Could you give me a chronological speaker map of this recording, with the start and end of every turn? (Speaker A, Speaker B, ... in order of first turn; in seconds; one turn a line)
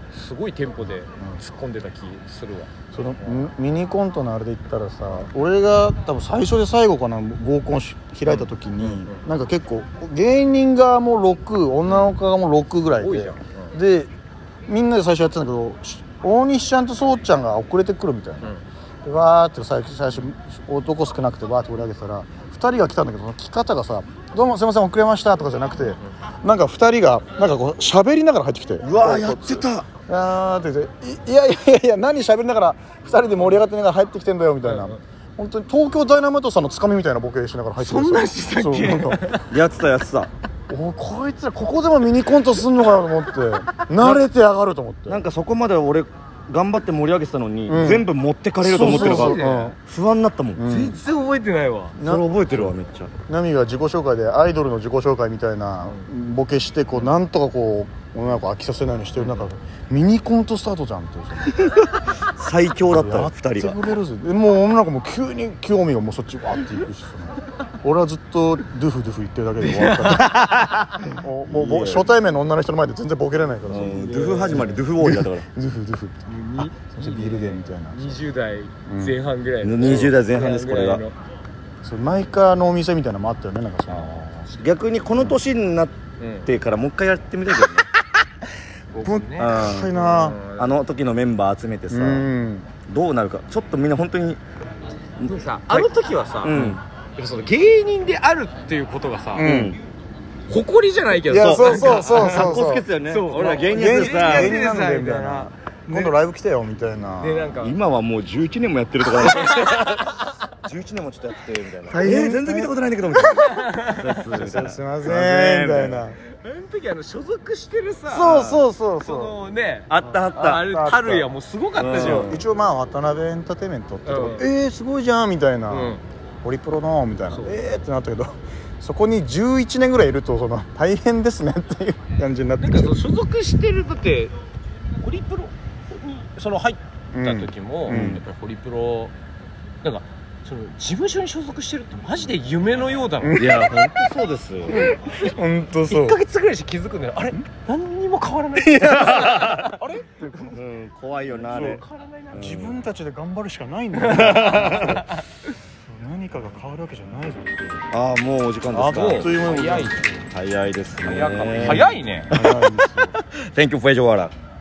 Speaker A: 0.1-2.7
Speaker B: 2.9-14.1
Speaker A: 8.3-9.2
Speaker A: 13.0-13.7
Speaker B: 14.7-18.5
Speaker B: 19.0-39.2
Speaker C: 28.8-29.9
Speaker A: 34.7-35.0
Speaker A: 37.8-39.5
Speaker C: 39.5-40.3
Speaker B: 40.7-45.2
Speaker C: 45.1-50.7
Speaker B: 47.7-48.1
Speaker B: 48.6-49.8
Speaker A: 48.8-49.7
Speaker B: 50.5-51.0
Speaker A: 50.6-52.0
Speaker B: 52.0-52.8
Speaker C: 52.0-53.1
Speaker B: 53.3-61.7
Speaker A: 59.2-59.5
Speaker C: 62.2-63.8
Speaker B: 62.8-78.2
Speaker C: 70.1-72.1
Speaker C: 73.7-75.4
Speaker A: 73.8-74.8
Speaker A: 76.5-81.1
Speaker B: 78.9-79.2
Speaker C: 79.6-81.0
Speaker B: 81.8-84.3
Speaker A: 83.9-84.5
Speaker C: 84.5-87.9
Speaker A: 86.2-86.5
Speaker A: 88.9-90.8
Speaker B: 89.0-90.4
Speaker C: 89.4-89.9
Speaker C: 90.6-92.3
Speaker B: 91.9-92.7
Speaker C: 92.9-94.4
Speaker C: 95.2-95.9
Speaker A: 95.2-99.5
Speaker C: 96.4-96.8
Speaker B: 96.5-96.8
Speaker B: 99.3-99.8
Speaker C: 99.4-99.8
Speaker A: 100.5-106.1
Speaker B: 101.2-102.9
Speaker C: 101.3-104.7
Speaker B: 103.6-107.5
Speaker A: 107.2-107.8
Speaker C: 107.6-116.0
Speaker A: 109.1-110.1
Speaker B: 111.9-113.3
Speaker A: 113.2-114.2
Speaker B: 114.3-116.2
Speaker A: 116.3-122.4
Speaker B: 118.1-119.4
Speaker C: 118.3-118.6
Speaker C: 119.9-120.7
Speaker B: 120.5-132.9
Speaker C: 121.8-122.4
Speaker A: 124.0-124.5
Speaker A: 125.7-126.0
Speaker A: 127.3-127.6
Speaker A: 132.6-134.3
Speaker A: 135.0-139.1
Speaker B: 137.1-138.2
Speaker C: 137.9-138.2
Speaker A: 139.8-143.5
Speaker B: 143.2-143.8
Speaker C: 143.3-144.9
Speaker B: 144.7-146.2
Speaker A: 144.7-145.3
Speaker A: 145.9-150.0
Speaker B: 148.6-150.6
Speaker C: 149.0-149.6
Speaker C: 150.5-152.8
Speaker A: 151.3-152.5
Speaker B: 151.5-155.1
Speaker A: 154.0-155.2
Speaker C: 154.1-155.0
Speaker B: 155.9-157.9
Speaker C: 157.9-159.4
Speaker B: 158.7-160.1
Speaker A: 158.8-160.3
Speaker C: 160.3-164.3
Speaker A: 161.0-162.3
Speaker B: 161.5-163.1